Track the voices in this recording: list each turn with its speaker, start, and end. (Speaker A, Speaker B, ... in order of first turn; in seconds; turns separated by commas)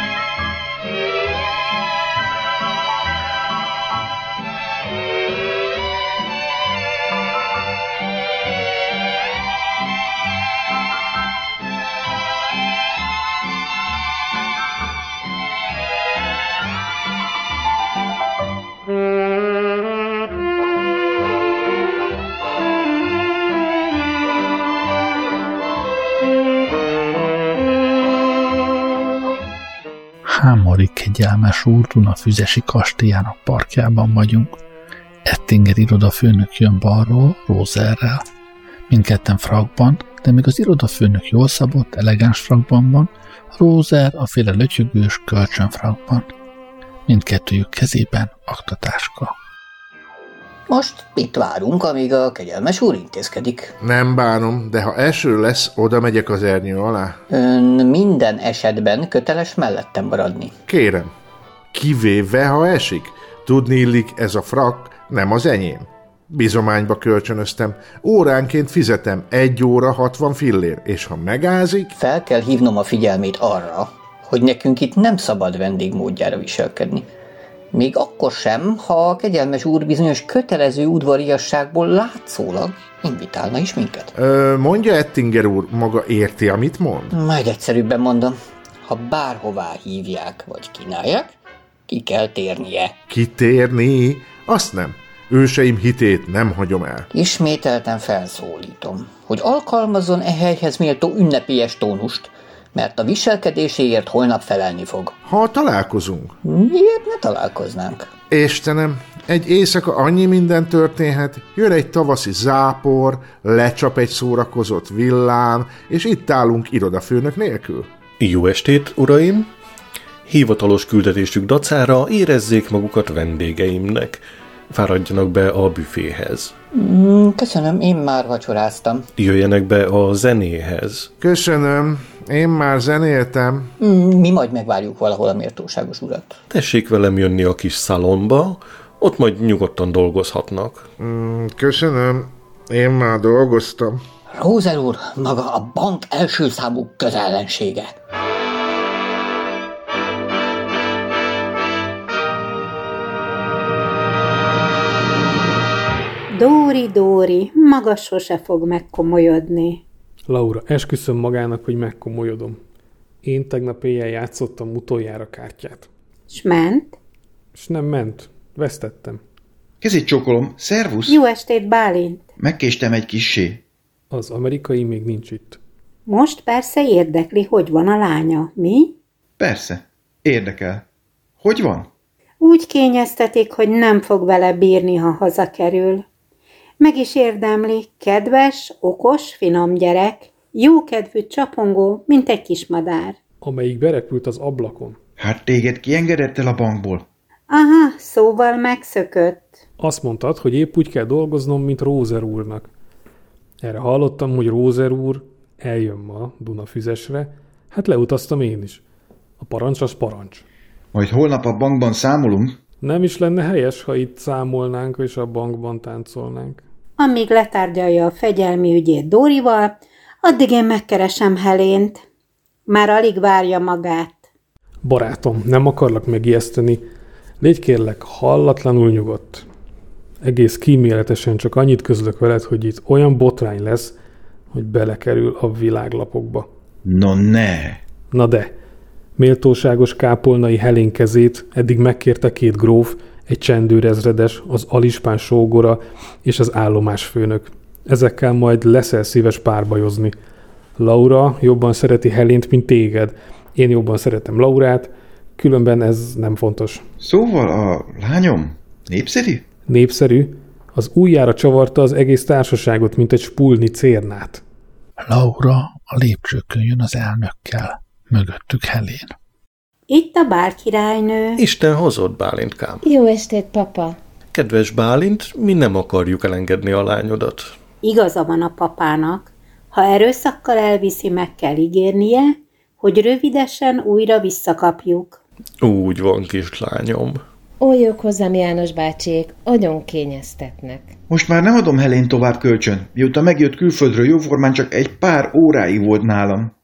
Speaker A: 30.2-34.5, Speaker A: 35.2-38.2, Speaker A: 38.9-46.3, Speaker A: 47.1-49.3, Speaker B: 50.7-53.7, Speaker C: 53.8-57.2, Speaker B: 57.3-60.5, Speaker C: 60.7-61.1, Speaker C: 61.7-71.9, Speaker B: 71.9-77.1, Speaker B: 77.7-84.1, Speaker C: 84.1-87.1, Speaker B: 87.1-91.3, Speaker B: 91.9-92.9, Speaker C: 93.1-97.1, Speaker B: 97.1-105.2, Speaker C: 105.2-106.3, Speaker B: 106.4-108.1, Speaker C: 108.3-117.9, Speaker D: 118.2-119.5, Speaker D: 120.3-126.5, Speaker B: 126.7-129.1, Speaker D: 129.2-131.1, Speaker C: 131.2-133.7, Speaker B: 133.8-136.4, Speaker D: 136.5-140.9, Speaker C: 141.0-144.0, Speaker B: 144.3-147.9, Speaker E: 156.3-159.8, Speaker F: 160.3-162.6, Speaker F: 163.2-165.9, Speaker E: 166.3-167.0, Speaker F: 167.5-169.2, Speaker G: 169.8-171.2, Speaker E: 171.1-172.3, Speaker G: 172.4-173.6, Speaker F: 174.1-175.6, Speaker E: 176.1-178.9, Speaker G: 179.4-180.8, Speaker G: 181.4-181.9, Speaker E: 182.4-186.0, Speaker E: 186.8-193.2, Speaker F: 193.4-195.0, Speaker G: 195.2-197.0, Speaker E: 197.5-199.6, Speaker F: 199.8-202.7, Speaker F: 203.6-208.8, Speaker F: 209.4-210.4, Speaker G: 210.9-212.6, Speaker F: 212.8-216.6, Speaker E: 217.0-222.0, Speaker E: 222.7-224.2, Speaker F: 224.8-226.8, Speaker F: 227.4-229.4, Speaker F: 230.2-233.9, Speaker F: 234.5-236.5, Speaker G: 236.8-237.8, Speaker F: 238.1-238.5, Speaker F: 239.2-250.1, Speaker F: 250.8-256.8, Speaker G: 257.0-259.4, Speaker F: 259.7-264.4, Speaker A: 265.0-269.1, Speaker E: 269.9-271.4, Speaker D: 271.4-272.8, Speaker H: 272.8-274.0, Speaker D: 274.3-277.5, Speaker E: 277.8-285.2, Speaker D: 285.6-287.2, Speaker H: 287.6-290.9, Speaker G: 291.1-296.5